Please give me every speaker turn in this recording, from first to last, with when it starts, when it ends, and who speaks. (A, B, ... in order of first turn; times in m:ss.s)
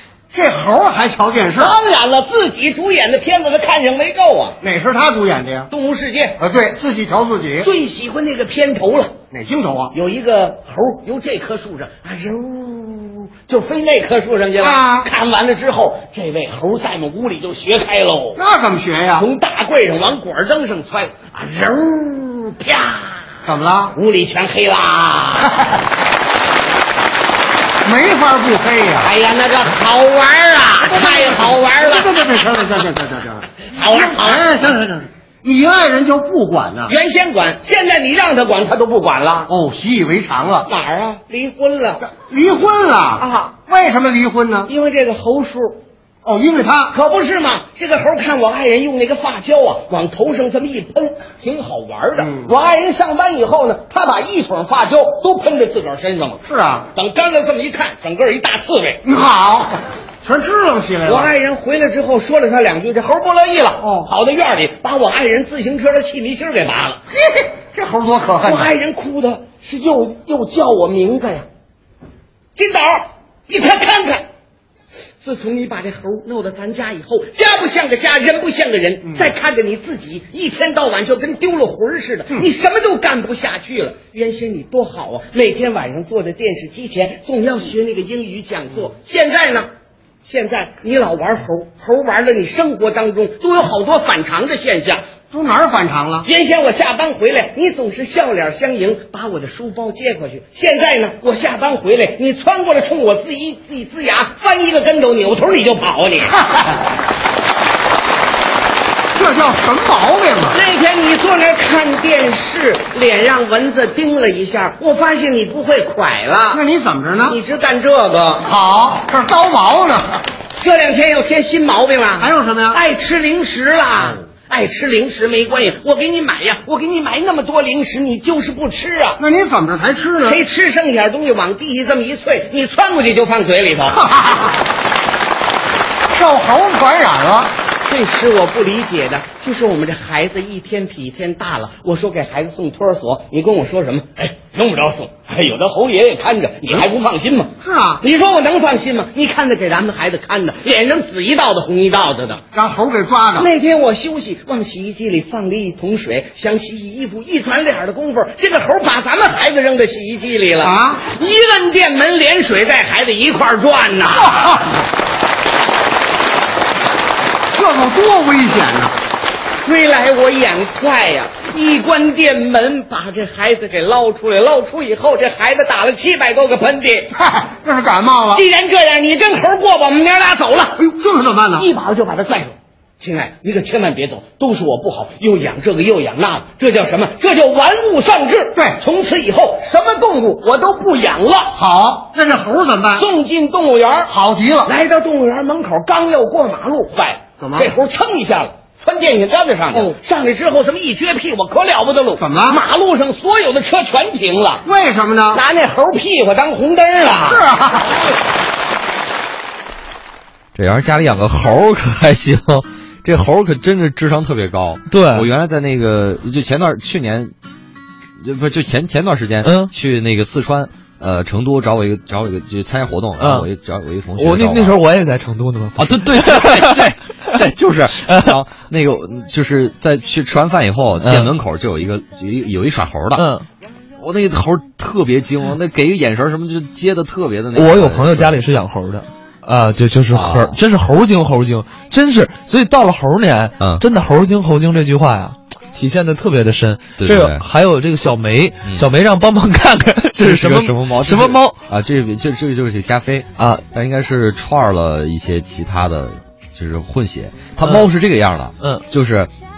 0:00.3-0:01.6 A
0:01.5-0:04.6 B
0:04.6-0:05.6 A
0:05.7-0:06.4 B
0:06.4-0:07.6 A
0:07.6-0:09.2 B
0:09.3-0:09.9 A
0:09.9-0:18.4 B
0:18.4-0:19.2 A
0:19.2-0:23.3 B
0:23.4-0:23.9 A
0:23.9-0:25.6 B
0:27.8-0:29.1 A
0:29.0-0:32.4 B
0:31.1-0:33.4 A
0:33.6-0:34.5 B
0:34.2-0:36.9 A
0:36.8-0:39.5 B
0:39.5-0:40.6 A
0:40.6-0:42.1 B
0:42.1-0:44.7 A
0:43.2-0:43.6 B
0:44.7-0:45.8 B
0:46.2-0:46.9 A
0:46.9-0:56.4 B
0:56.5-0:56.8 A
0:56.9-0:59.0 B
0:59.1-0:59.7 A
1:00.2-1:01.3 A
1:01.0-1:07.0 B
1:07.6-1:08.6 A
1:08.4-1:11.4 B
1:12.6-1:14.3 B
1:15.2-1:29.7 B
1:30.2-1:35.0 B
1:35.3-1:36.2 A
1:36.2-1:46.4 B
1:49.2-1:50.6 A
1:50.5-1:56.6 B
1:56.5-1:57.3 A
1:57.2-1:58.5 B
1:58.5-2:00.1 A
2:00.6-2:09.2 B
2:02.2-2:02.8 A
2:09.2-2:10.3 A
2:10.2-2:14.0 B
2:16.1-2:17.5 A
2:17.8-2:32.4 B
2:32.5-2:33.5 A
2:33.4-2:44.6 B
2:40.7-2:41.0 A
2:47.5-2:48.9 A
2:49.6-2:57.1 B
2:57.4-2:58.4 A
2:58.3-3:00.8 B
3:00.9-3:01.6 A
3:01.6-3:11.6 B
3:11.6-3:13.0 A
3:12.9-3:14.1 B
3:14.1-3:14.7 A
3:14.6-3:24.6 B
3:22.2-3:22.5 A
3:24.7-3:25.4 A
3:25.3-3:27.4 B
3:27.4-3:27.8 A
3:30.5-3:37.3 C
3:34.9-3:35.3 D
3:38.2-3:44.8 C
3:39.4-3:39.7 D
3:43.2-3:43.5 D
3:44.2-3:46.9 D
3:45.8-3:53.2 C
3:48.0-3:48.4 D
3:51.0-3:51.3 D
3:53.2-3:53.5 D
3:54.0-3:58.4 C
3:57.5-4:11.6 D
4:00.1-4:00.6 C
4:03.6-4:03.8 C
4:07.0-4:07.4 C
4:10.2-4:19.3 C
4:13.4-4:13.6 D
4:17.6-4:17.9 D
4:18.6-4:18.8 D